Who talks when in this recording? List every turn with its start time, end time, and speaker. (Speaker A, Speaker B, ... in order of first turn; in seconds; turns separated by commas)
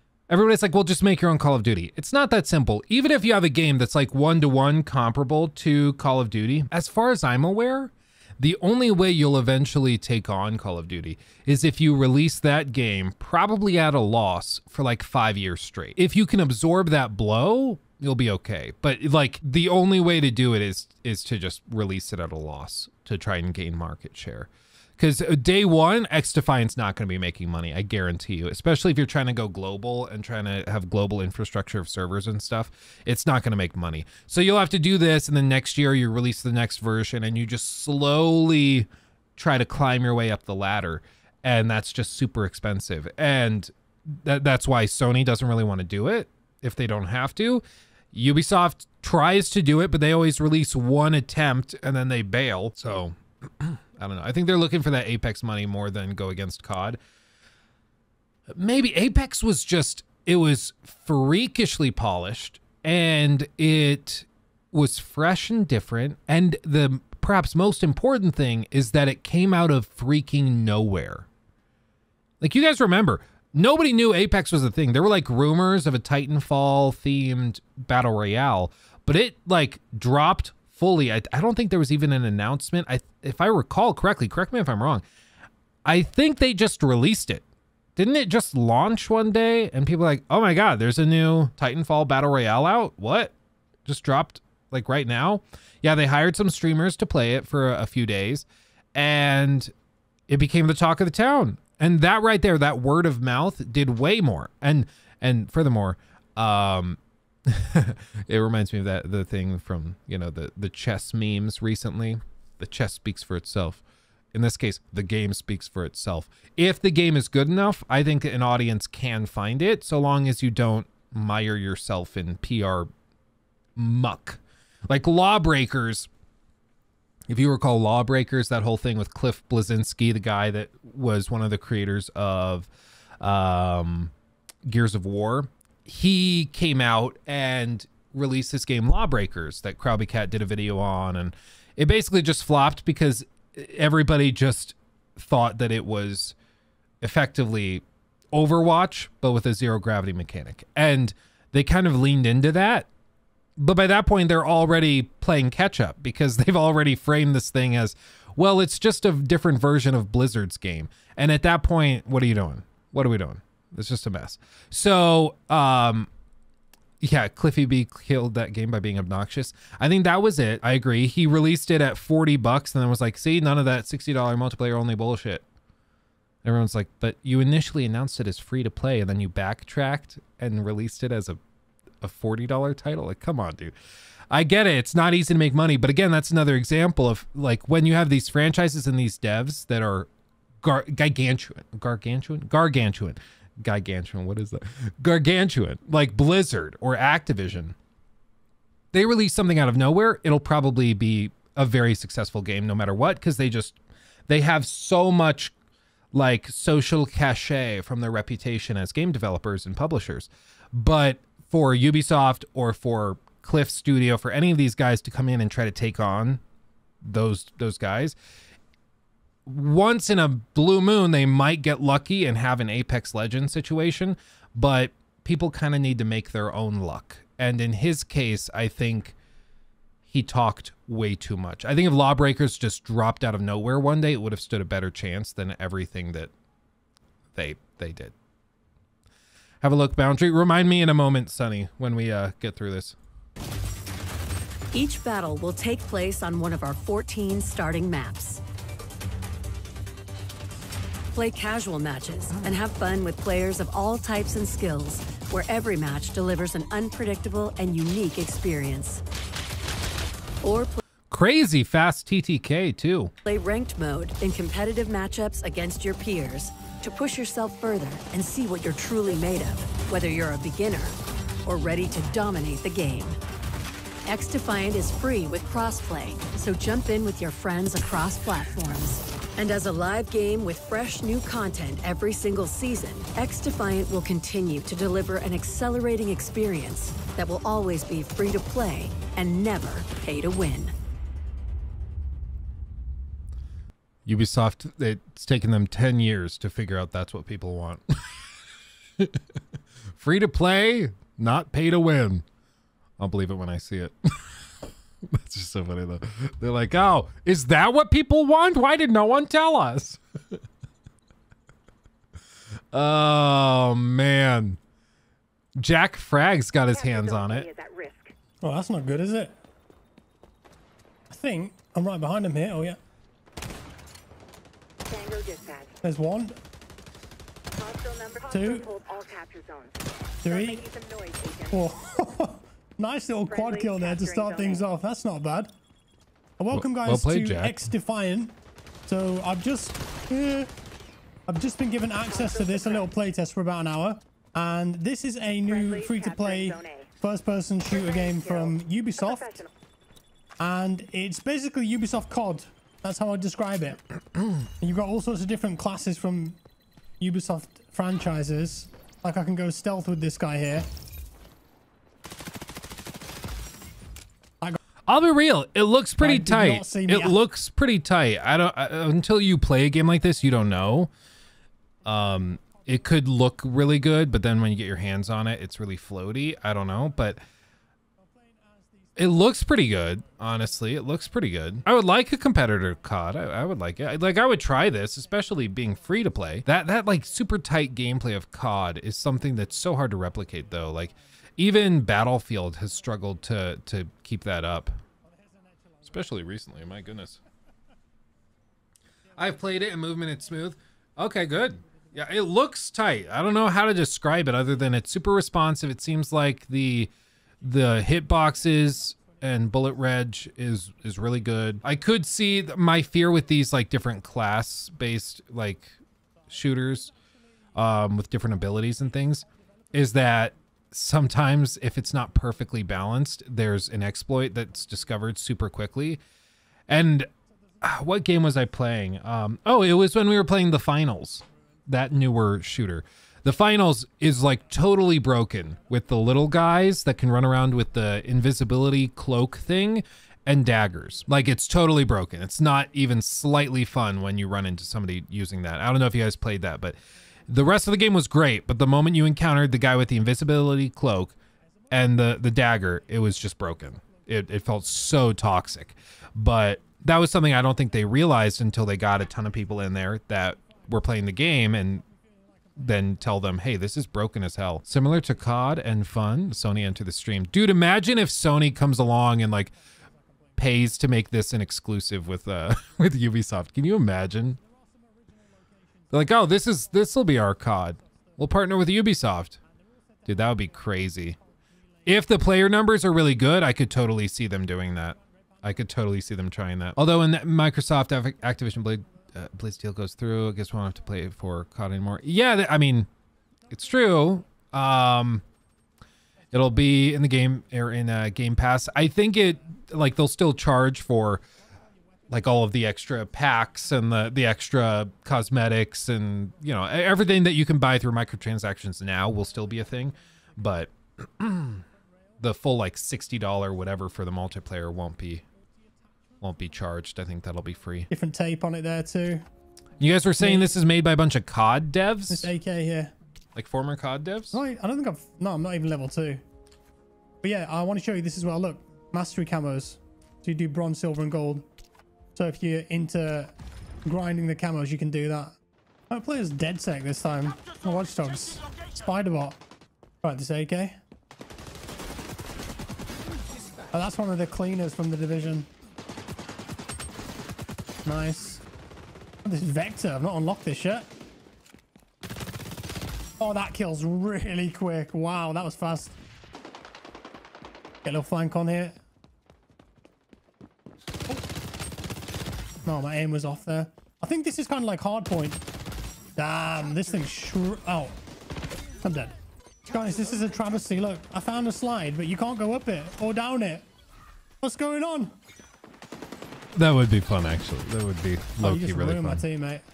Speaker A: 0.3-57.0, Speaker A: 58.5-71.3, Speaker A: 72.4-85.0, Speaker A: 85.8-87.4, Speaker A: 88.0-93.3, Speaker A: 93.8-99.7, Speaker A: 100.3-113.8, Speaker A: 114.3-122.9, Speaker A: 123.8-126.1, Speaker A: 127.3-134.1, Speaker A: 134.6-146.3, Speaker A: 147.0-152.9, Speaker A: 153.6-166.1, Speaker A: 167.0-175.4, Speaker A: 176.4-181.4, Speaker A: 182.0-183.7, Speaker A: 184.3-190.1, Speaker A: 190.6-197.8, Speaker A: 198.9-203.8, Speaker A: 204.3-205.5, Speaker A: 206.1-216.4, Speaker A: 217.0-218.2, Speaker A: 219.5-229.2, Speaker A: 230.1-236.3, Speaker A: 237.3-238.1, Speaker A: 239.6-242.9, Speaker B: 244.7-248.4, Speaker B: 251.1-259.0, Speaker B: 260.4-260.8, Speaker A: 261.1-263.1, Speaker B: 263.2-273.2, Speaker B: 274.1-290.7, Speaker A: 294.1-298.2, Speaker A: 300.0-302.2, Speaker A: 303.0-304.5, Speaker A: 305.1-310.0, Speaker A: 312.7-314.6, Speaker A: 315.6-317.5, Speaker C: 316.7-318.1, Speaker D: 318.4-319.4, Speaker D: 321.1-322.8, Speaker C: 324.9-325.7, Speaker D: 325.8-326.3, Speaker C: 327.5-329.8, Speaker D: 328.3-328.7, Speaker D: 330.2-330.6, Speaker C: 330.3-331.6, Speaker D: 331.5-335.5, Speaker C: 333.3-334.6, Speaker D: 336.4-338.3, Speaker A: 336.5-337.6, Speaker D: 338.9-340.5, Speaker D: 341.3-349.4, Speaker C: 342.1-342.8, Speaker C: 345.4-346.9, Speaker C: 347.7-349.4, Speaker D: 350.4-353.8, Speaker D: 354.6-356.4, Speaker D: 357.0-360.7, Speaker A: 364.9-370.9, Speaker D: 366.0-367.2, Speaker A: 371.8-377.2, Speaker A: 378.9-394.8, Speaker A: 395.8-397.2, Speaker A: 399.1-416.9, Speaker A: 417.5-426.0, Speaker A: 426.7-427.1, Speaker A: 427.6-446.8, Speaker A: 447.3-451.1, Speaker A: 451.7-461.8, Speaker A: 462.6-469.5, Speaker A: 470.4-474.4, Speaker A: 475.9-479.4, Speaker A: 480.0-481.2, Speaker A: 481.8-492.9, Speaker A: 493.5-495.2, Speaker A: 496.3-501.2, Speaker A: 502.1-511.6, Speaker A: 512.2-515.2, Speaker A: 516.2-517.9, Speaker D: 517.9-519.2, Speaker A: 519.8-522.3, Speaker D: 520.2-520.5, Speaker D: 522.1-522.9, Speaker A: 523.3-524.4, Speaker D: 524.3-526.2, Speaker D: 527.2-531.4, Speaker D: 532.1-533.3, Speaker D: 533.8-535.4, Speaker D: 535.9-539.4, Speaker D: 540.0-540.8, Speaker D: 543.7-545.5, Speaker D: 547.8-548.4, Speaker D: 549.2-550.9, Speaker D: 553.2-556.0, Speaker D: 557.8-558.8, Speaker D: 562.6-565.4, Speaker D: 566.1-568.0, Speaker D: 568.8-573.6, Speaker D: 574.4-575.1, Speaker A: 576.5-579.2, Speaker D: 578.4-579.6